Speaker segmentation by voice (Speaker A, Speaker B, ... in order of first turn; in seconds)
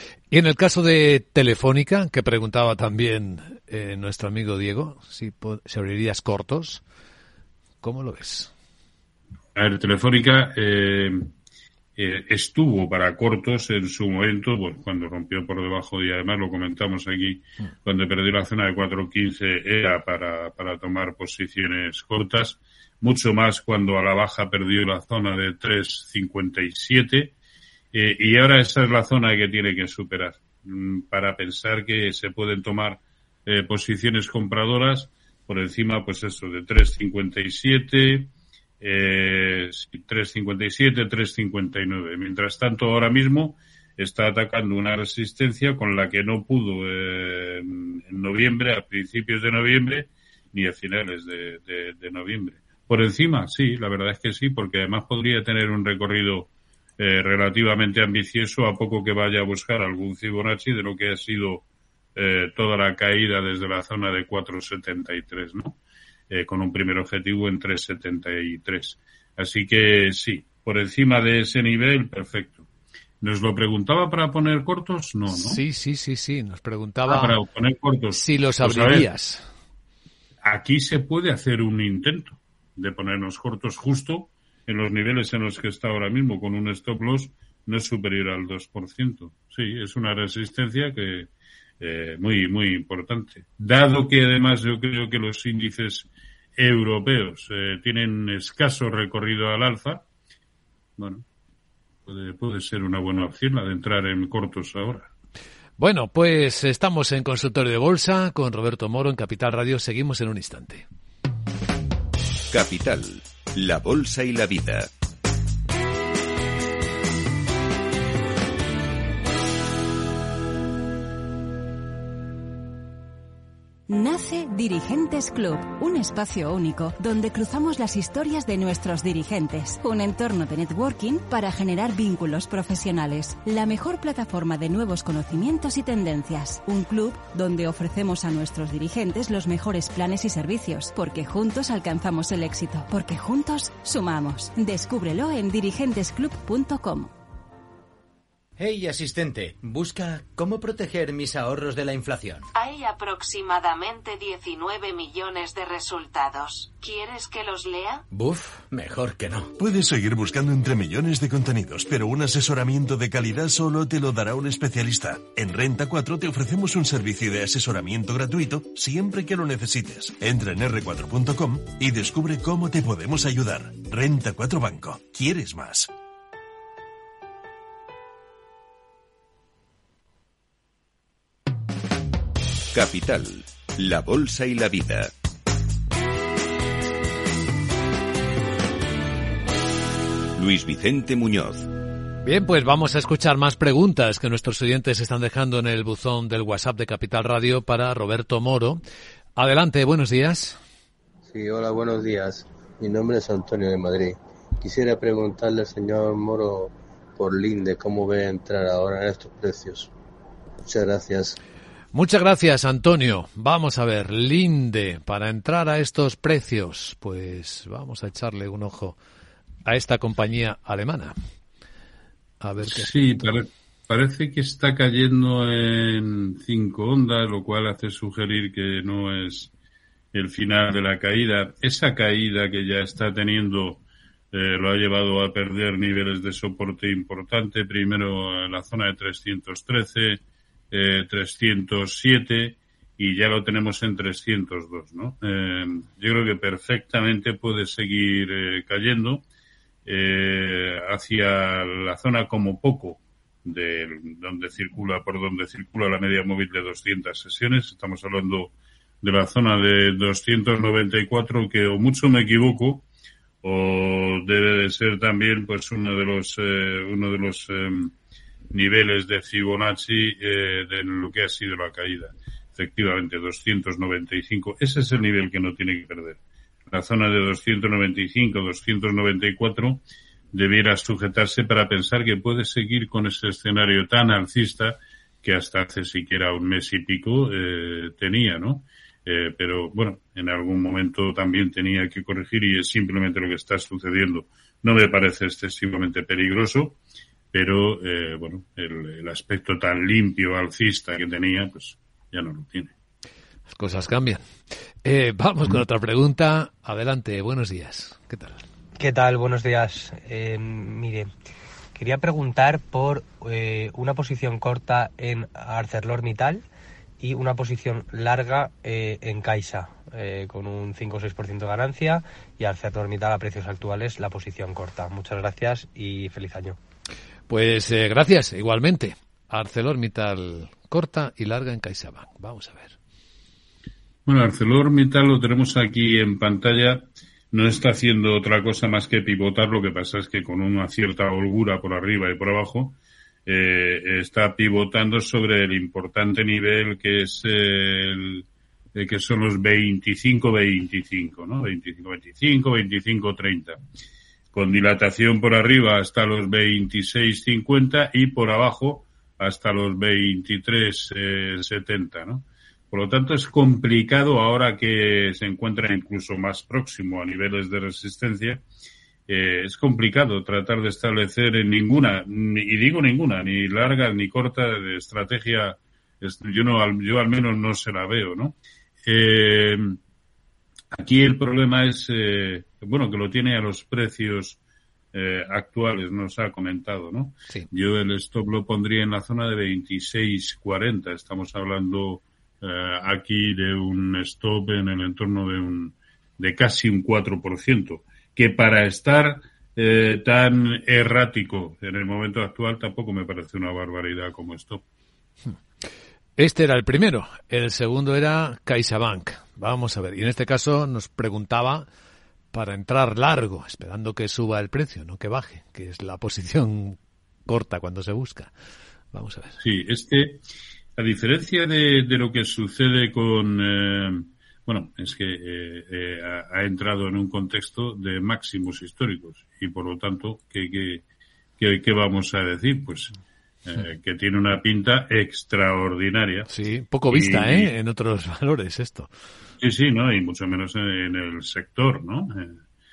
Speaker A: 0.3-6.8, 7.8-8.5, 75.3-77.4, 78.1-79.5, 105.8-110.8, 192.2-198.8, 199.3-200.6, 211.9-219.0, 219.7-221.1, 222.4-223.3, 303.5-304.2, 304.8-308.4, 327.3-332.8, 406.2-411.7, 412.3-418.3, 418.9-419.4, 436.3-438.9
Speaker B: 9.6-11.3, 12.0-27.3, 27.9-61.6, 62.1-65.8, 66.3-72.6, 73.2-75.6, 77.1-79.1, 80.4-91.3, 91.8-100.0, 101.0-101.2, 102.1-105.1, 222.6-229.5, 230.1-249.2, 249.8-262.8, 263.4-267.9, 268.5-296.8, 297.3-302.7, 334.1-353.6, 354.3-368.4, 369.1-379.8, 380.7-384.4, 384.9-404.6, 419.4-420.2, 420.8-430.8, 431.4-432.9, 433.4-436.3, 436.9-437.5, 439.4-442.4
Speaker C: 112.5-114.9, 182.7-185.1, 190.3-191.7
Speaker D: 123.9-147.1
Speaker E: 148.6-152.5, 158.1-159.5
Speaker F: 152.5-158.0
Speaker G: 159.6-175.9
Speaker H: 201.3-209.9, 210.6-211.4
Speaker I: 308.8-311.1, 311.7-316.4, 317.0-326.6